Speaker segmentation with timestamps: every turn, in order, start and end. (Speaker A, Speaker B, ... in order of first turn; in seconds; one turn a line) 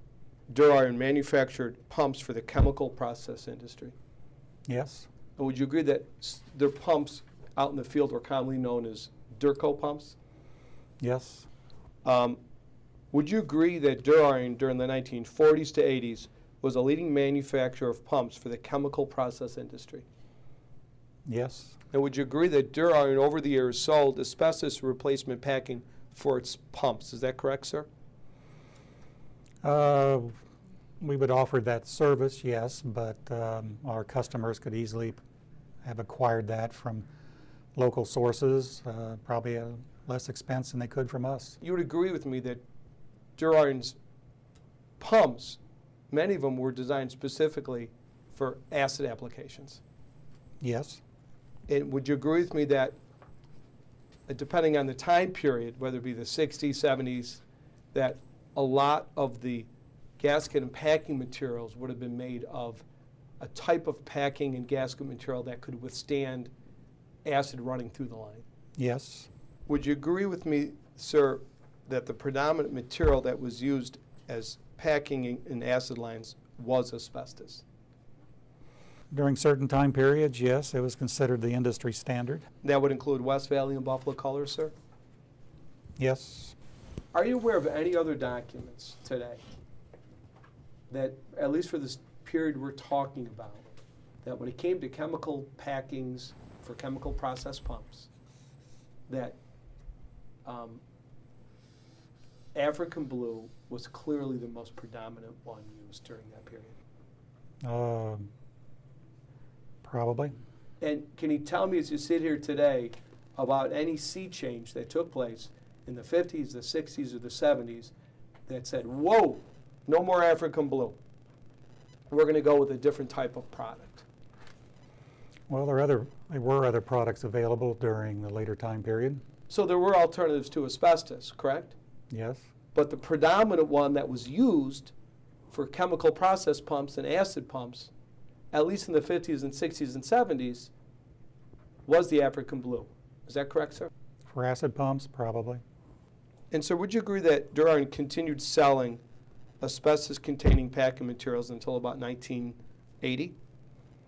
Speaker A: 0.5-3.9
Speaker B: 4.7-5.1
Speaker A: 5.4-10.2
Speaker B: 11.0-11.5
Speaker A: 12.0-12.4
Speaker A: 13.1-20.0
Speaker B: 21.3-21.8
Speaker A: 21.9-27.9
Speaker B: 29.6-30.4
Speaker B: 31.0-35.2
Speaker B: 35.8-37.0
Speaker B: 37.8-41.6
Speaker A: 41.6-42.6
Speaker A: 43.4-44.0
Speaker A: 45.0-49.8
Speaker B: 50.6-51.0
Speaker A: 51.7-53.0
Speaker A: 54.3-57.4
Speaker A: 57.9-62.8
Speaker A: 63.4-66.5
Speaker A: 67.2-68.4
Speaker B: 68.8-69.3
Speaker A: 69.7-77.6
Speaker B: 79.1-82.5
Speaker A: 82.6-84.7
Speaker B: 86.0-86.5
Speaker A: 87.1-89.4
Speaker A: 90.9-93.7
Speaker A: 94.2-98.1
Speaker A: 99.1-99.4
Speaker A: 100.4-100.8
Speaker A: 102.5-106.8
Speaker B: 107.6-108.3
Speaker B: 109.8-110.3
Speaker A: 110.8-117.9
Speaker A: 118.5-121.0
Speaker A: 122.1-124.0
Speaker B: 125.5-129.2
Speaker A: 129.5-131.7
Speaker B: 132.1-132.4
Speaker A: 132.7-134.9
Speaker A: 135.5-137.9
Speaker A: 138.5-140.7
Speaker A: 141.8-143.9
Speaker B: 144.3-145.6
Speaker A: 146.5-149.0
Speaker A: 149.6-153.3